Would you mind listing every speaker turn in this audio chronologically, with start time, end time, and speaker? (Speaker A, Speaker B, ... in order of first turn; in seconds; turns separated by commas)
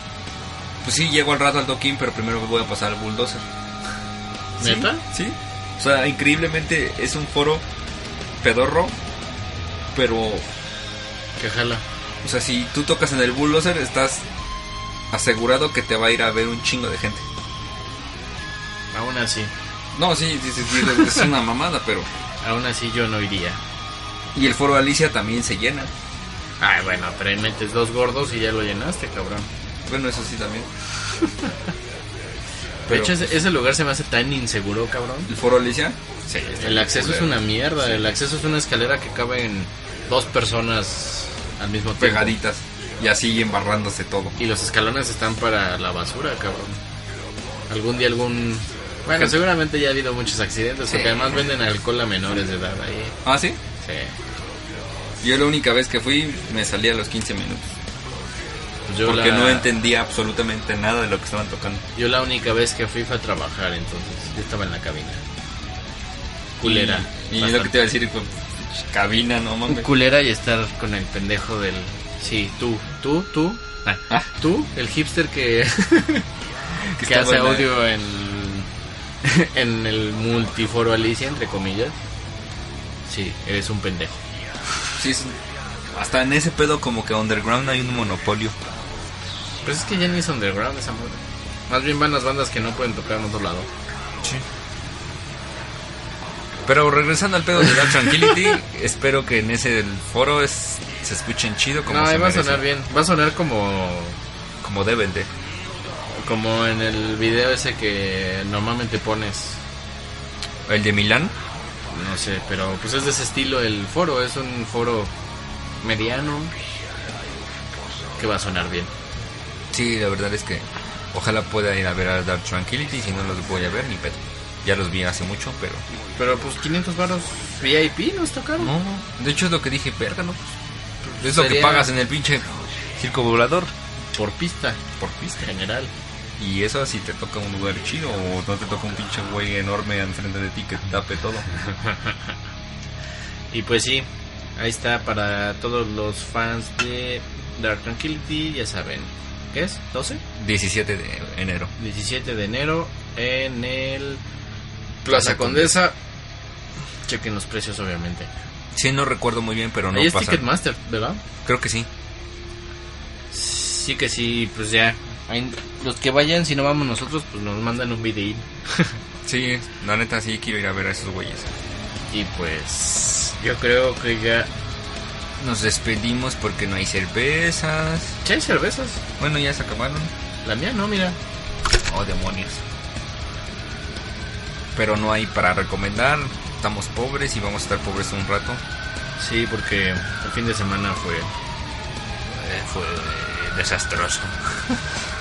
Speaker A: 0.8-3.4, Speaker B: 4.6-5.0, Speaker A: 4.6-7.6, Speaker A: 8.4-8.9, Speaker A: 9.9-10.4, Speaker B: 11.4-11.8, Speaker A: 12.2-14.2, Speaker A: 15.1-17.2, Speaker B: 18.9-19.5, Speaker A: 19.9-22.1, Speaker B: 22.4-23.6, Speaker A: 24.3-25.9, Speaker B: 26.6-29.5, Speaker A: 29.9-30.7, Speaker B: 32.9-35.3, Speaker A: 32.9-33.2, Speaker A: 35.3-38.0, Speaker B: 36.6-42.4, Speaker A: 42.0-44.4, Speaker B: 44.4-46.8, Speaker B: 47.7-53.2, Speaker A: 50.9-51.4, Speaker A: 53.2-53.6, Speaker B: 53.8-54.1, Speaker A: 55.2-57.7, Speaker B: 58.9-59.7, Speaker A: 59.0-61.8, Speaker B: 61.9-65.2, Speaker B: 66.6-67.7, Speaker A: 66.6-69.9, Speaker B: 69.7-76.3, Speaker B: 76.8-78.7, Speaker A: 77.0-77.7, Speaker B: 79.2-81.9, Speaker B: 83.0-84.2, Speaker A: 85.0-85.3, Speaker A: 85.9-88.5, Speaker B: 89.6-93.7, Speaker A: 96.6-102.6, Speaker B: 101.8-104.2, Speaker A: 104.6-105.3, Speaker B: 106.1-109.6, Speaker A: 110.7-111.3, Speaker B: 111.9-115.1, Speaker B: 115.8-116.5, Speaker B: 118.2-118.9, Speaker A: 119.7-125.8, Speaker B: 126.2-128.7, Speaker A: 128.6-130.6, Speaker B: 131.0-131.9, Speaker A: 131.2-133.7, Speaker B: 134.1-134.8, Speaker A: 135.0-135.4, Speaker B: 135.4-135.9, Speaker A: 136.4-141.5, Speaker B: 141.7-142.3, Speaker B: 143.5-150.2, Speaker A: 150.3-151.7, Speaker B: 151.8-154.2, Speaker B: 155.0-155.9, Speaker A: 155.1-155.7, Speaker B: 157.1-158.3, Speaker A: 158.7-160.4, Speaker B: 159.9-161.2, Speaker A: 161.4-161.9, Speaker B: 163.3-169.0, Speaker A: 169.2-171.5, Speaker B: 172.1-174.5, Speaker A: 175.4-178.2, Speaker B: 178.2-179.0, Speaker A: 179.2-180.1, Speaker B: 180.4-181.2, Speaker A: 181.8-182.6, Speaker A: 184.7-188.6, Speaker B: 189.2-191.3, Speaker A: 192.3-194.8